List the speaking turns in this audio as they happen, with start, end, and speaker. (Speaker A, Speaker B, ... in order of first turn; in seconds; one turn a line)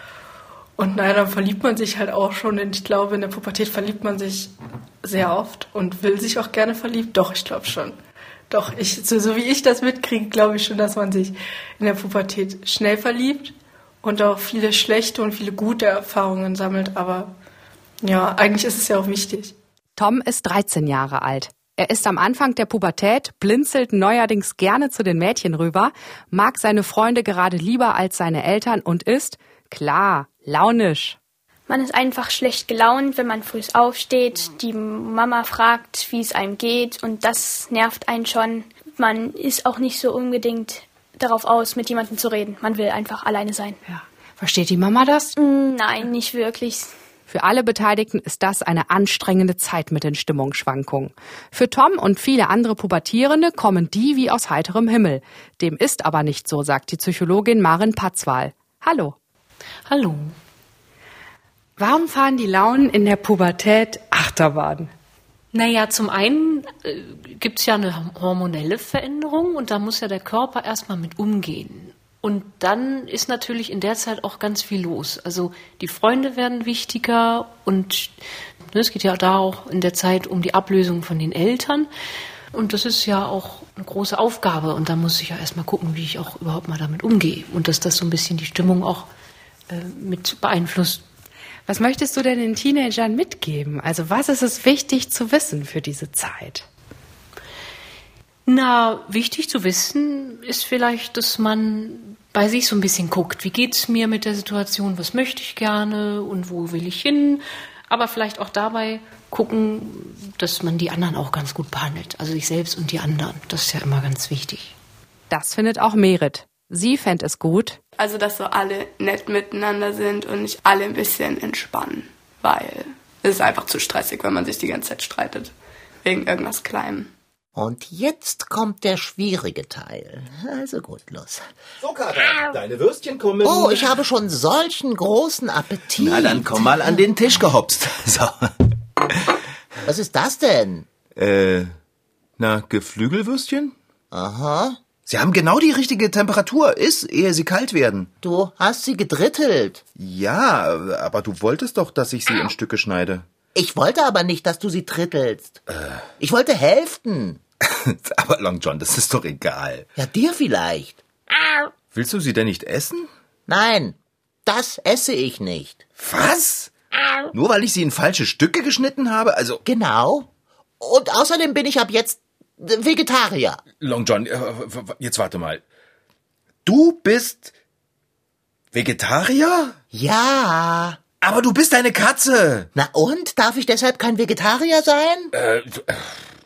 Speaker A: 0.8-8.0
Speaker A: 8.5-17.3
Speaker A: 18.0-19.6
Speaker B: 20.0-31.2
Speaker C: 31.7-43.8
Speaker B: 43.9-45.3
Speaker C: 45.4-46.9
Speaker B: 47.3-59.2
Speaker D: 59.9-60.4
Speaker B: 61.8-64.9
Speaker D: 65.5-81.9
Speaker D: 82.5-89.1
Speaker D: 89.7-91.0
Speaker B: 91.7-96.7
Speaker D: 98.5-114.7
Speaker B: 115.3-117.8
Speaker E: 118.0-125.5
Speaker E: 126.0-127.1
Speaker F: 127.5-131.5
Speaker G: 131.8-133.9
Speaker F: 133.4-136.9
Speaker G: 136.0-138.5
Speaker F: 139.8-140.9
Speaker G: 141.2-141.7
Speaker G: 142.4-143.7
Speaker F: 144.1-144.8
Speaker G: 145.1-148.1
Speaker F: 148.2-149.8
Speaker G: 149.9-153.2
Speaker F: 153.5-155.6
Speaker G: 155.7-156.0
Speaker F: 156.2-157.4
Speaker G: 157.6-159.9
Speaker F: 159.9-161.0
Speaker G: 161.9-163.1
Speaker F: 163.5-165.8
Speaker G: 166.0-166.7
Speaker G: 167.3-169.6
Speaker F: 169.6-170.3
Speaker F: 170.8-173.6
Speaker G: 173.8-175.6
Speaker G: 176.6-177.5
Speaker G: 178.7-179.8
Speaker F: 179.9-181.0
Speaker G: 181.2-182.7
Speaker F: 182.7-185.3
Speaker G: 185.3-186.2